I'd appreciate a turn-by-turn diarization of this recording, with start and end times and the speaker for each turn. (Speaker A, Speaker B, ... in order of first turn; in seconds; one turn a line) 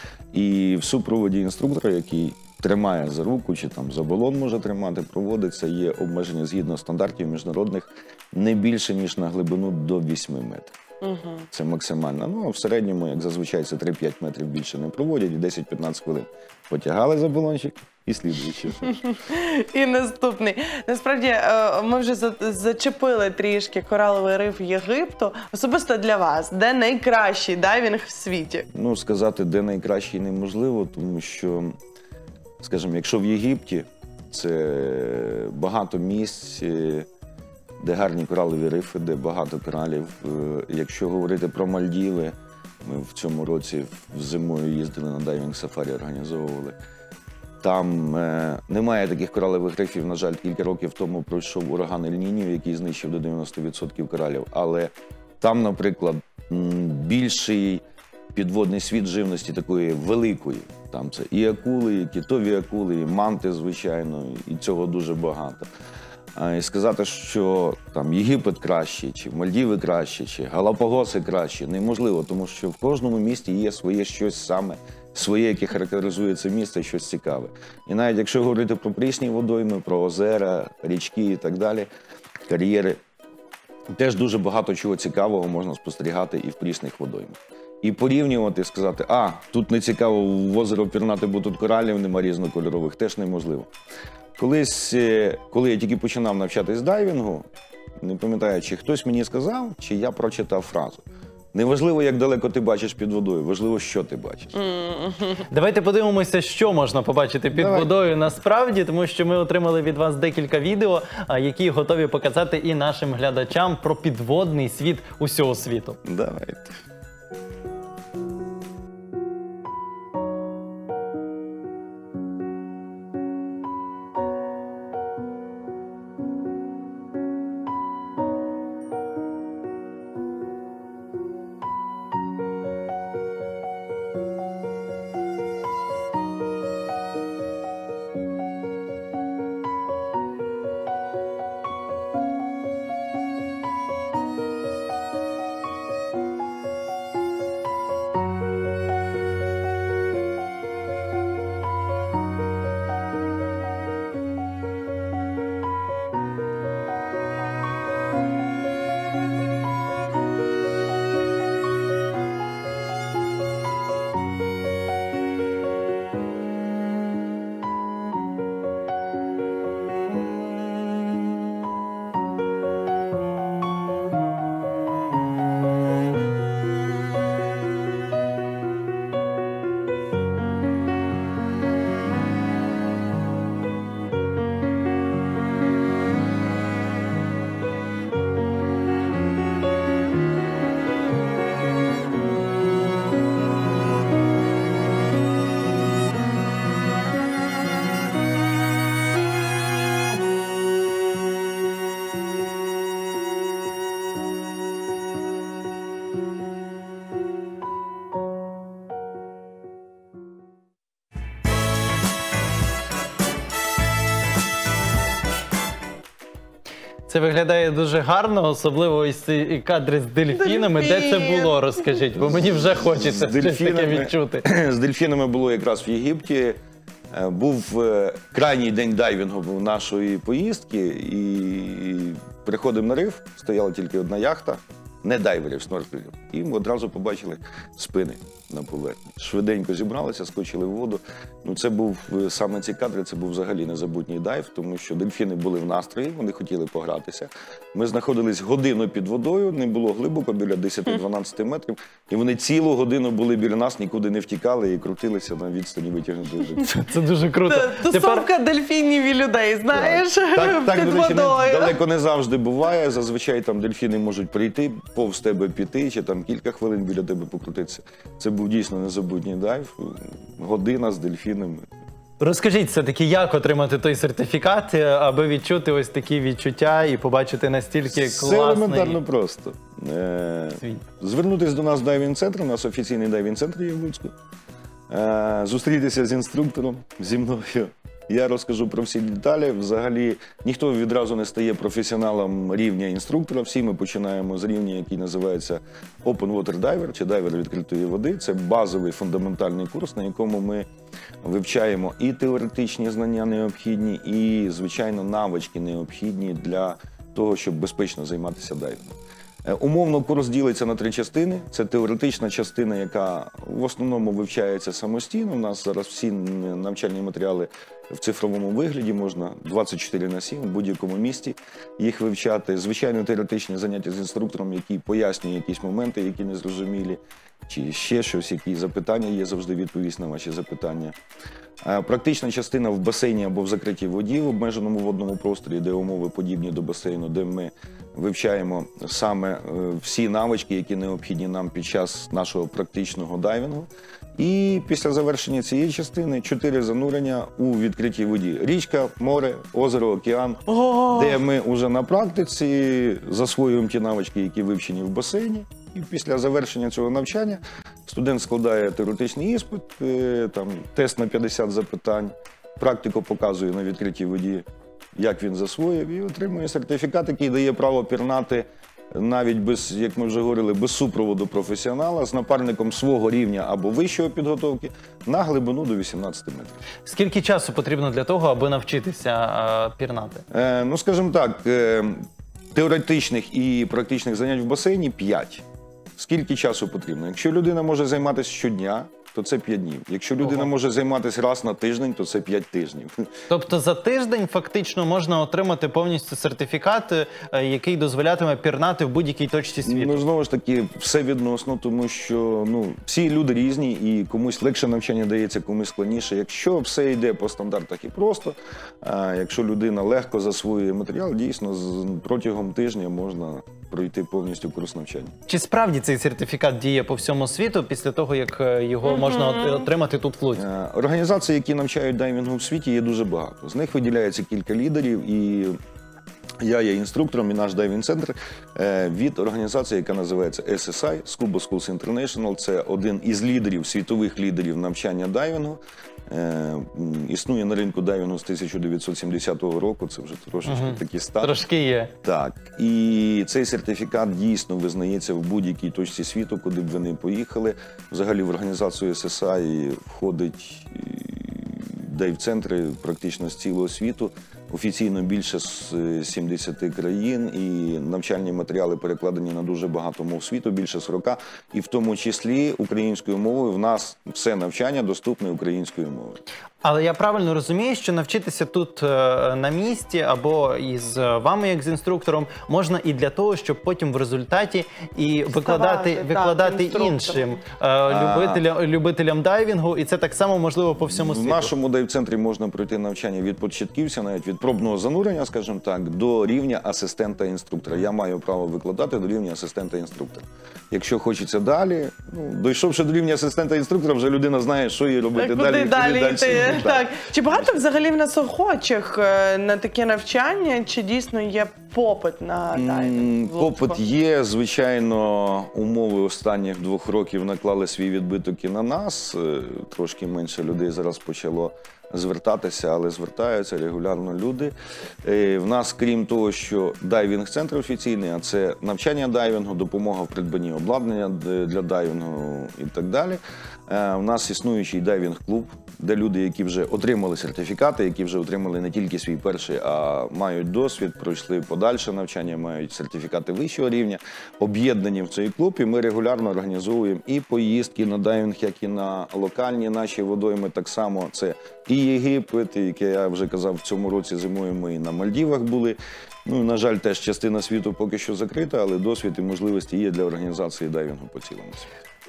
Speaker A: 0.3-10.8
Speaker B: 11.0-11.5
Speaker A: 11.5-18.9
Speaker B: 18.8-28.7
Speaker A: 28.7-31.8
Speaker A: 32.6-37.1
Speaker A: 37.8-46.8
Speaker A: 47.6-57.8
Speaker A: 58.3-65.7
Speaker A: 66.3-81.9
Speaker A: 82.5-83.0
Speaker A: 83.9-93.7
Speaker A: 94.4-97.5
Speaker A: 98.0-104.5
Speaker B: 104.5-105.5
Speaker C: 105.5-116.0
Speaker A: 107.5-107.9
Speaker A: 116.0-116.8
Speaker C: 217.1-224.4
Speaker B: 220.3-222.1
Speaker A: 222.2-226.6
Speaker A: 227.1-256.7
Speaker C: 256.6-258.3
Speaker B: 257.4-261.8
Speaker A: 259.7-271.7
Speaker C: 272.2-279.0
Speaker A: 277.9-284.1
Speaker A: 284.9-300.7
Speaker A: 301.2-330.9
Speaker A: 331.6-364.4
Speaker B: 350.5-351.2
Speaker A: 365.0-376.6
Speaker C: 376.9-380.2
Speaker A: 380.3-382.0
Speaker A: 382.5-385.4
Speaker A: 386.0-393.1
Speaker C: 390.2-390.5
Speaker C: 393.3-400.1
Speaker A: 399.6-415.1
Speaker C: 415.3-420.4
Speaker B: 418.9-419.7
Speaker A: 420.3-425.6
Speaker A: 426.4-441.4
Speaker C: 440.5-441.9
Speaker A: 442.0-466.2
Speaker C: 466.6-481.5
Speaker B: 475.3-477.4
Speaker A: 477.9-478.4
Speaker A: 480.8-496.9
Speaker B: 495.1-503.8
Speaker A: 502.5-551.7